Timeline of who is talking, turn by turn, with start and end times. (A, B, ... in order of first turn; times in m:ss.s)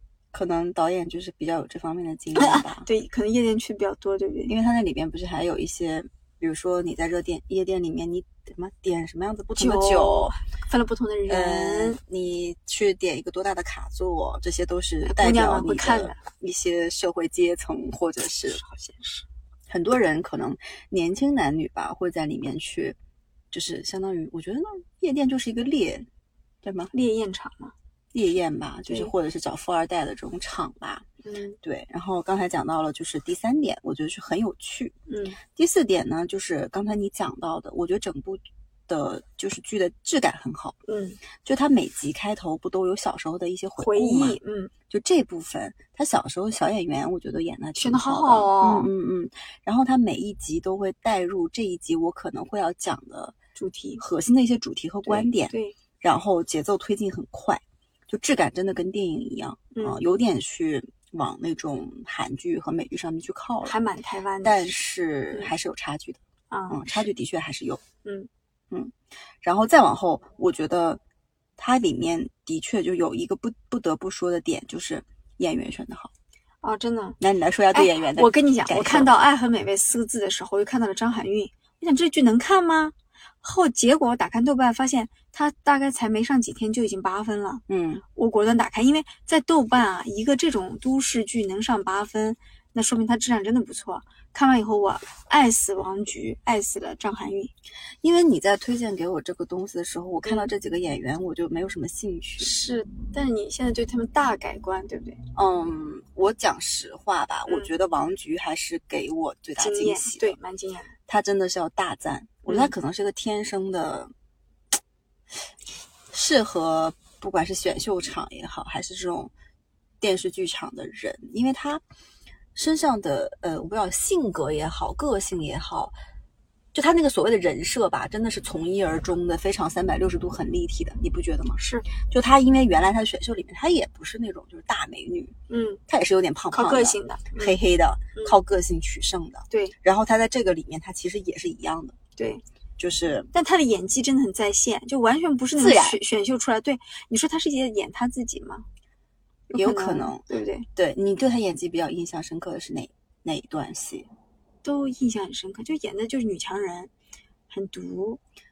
0:00.3-0:02.9 A
0:02.4-0:04.5 B
0:04.5-0:10.3 A
0:09.6-0:12.0 B
0:11.3-0:18.6 A
0:15.0-0:16.2 B
0:18.5-0:19.3 B
0:19.7-0:23.0 A
0:23.5-0:26.1 A
0:26.6-0:26.9 A
0:26.9-0:27.7 B
0:28.1-0:31.1 A
0:28.9-0:29.1 B
0:31.2-0:31.6 B
0:31.6-0:35.0 A
0:35.1-0:35.4 B
0:35.6-0:40.8 A
0:40.9-0:41.2 B
0:41.4-0:44.4 A
0:43.8-0:44.7 B
0:44.9-0:53.4 A
0:47.8-0:48.9 B
0:53.6-0:54.0 B
0:54.0-1:03.8 A
0:55.1-0:55.8 B
0:59.7-1:00.0 B
1:03.6-1:04.8 B
1:04.4-1:07.8 A
1:06.5-1:07.1 B
1:08.0-1:08.3 B
1:08.7-1:11.0 A
1:11.6-1:16.1 A
1:16.6-1:17.2 B
1:17.2-1:19.1 A
1:17.7-1:27.6 B
1:27.7-1:28.0 A
1:28.2-1:37.5 B
1:38.0-1:42.5 A
1:42.4-1:45.2 B
1:45.4-1:50.3 A
1:49.6-1:50.9 B
1:51.1-1:54.1 A
1:52.5-1:52.7 B
1:56.1-1:59.3 A
2:00.0-2:01.8 A
2:02.6-2:06.0 A
2:06.7-2:15.3 A
2:11.6-2:11.9 B
2:15.5-2:15.8 B
2:15.9-2:22.0 A
2:16.5-2:17.6 B
2:19.5-2:19.8 B
2:22.2-2:22.4 B
2:22.8-2:23.3 A
2:23.3-2:28.6 B
2:25.6-2:26.0 A
2:29.5-2:30.7 B
2:29.5-2:30.2 A
2:30.8-2:34.1 A
2:34.6-2:36.9 B
2:37.5-2:38.2 B